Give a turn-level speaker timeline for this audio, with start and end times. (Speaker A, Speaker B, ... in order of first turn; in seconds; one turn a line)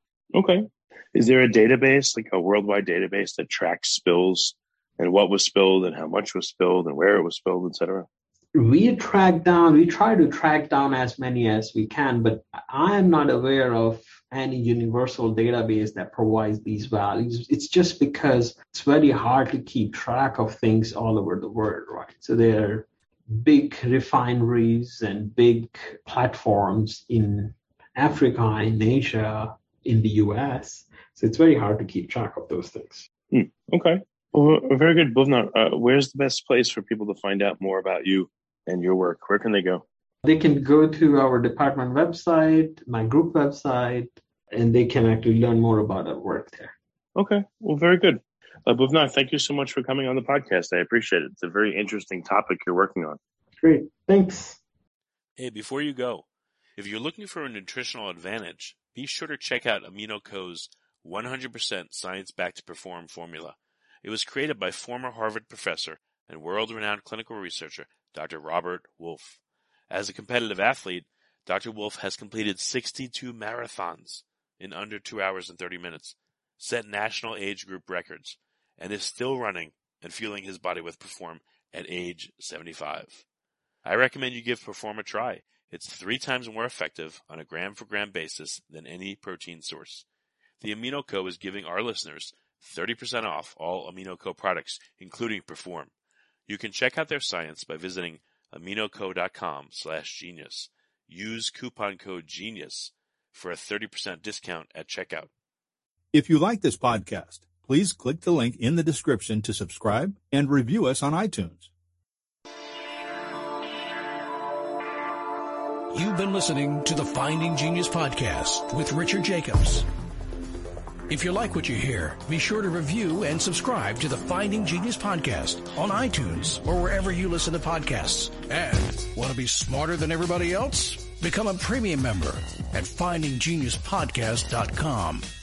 Speaker A: 0.3-8.1
Speaker B: 8.5-33.1
Speaker A: 33.3-39.8
Speaker B: 40.2-46.7
Speaker A: 47.1-53.2
Speaker B: 53.6-54.6
Speaker C: 55.4-56.2
Speaker C: 56.8-83.2
Speaker C: 83.8-90.0
Speaker C: 90.6-95.9
Speaker C: 96.5-105.3
Speaker D: 106.1-111.7
Speaker E: 115.9-119.8
Speaker E: 121.1-135.2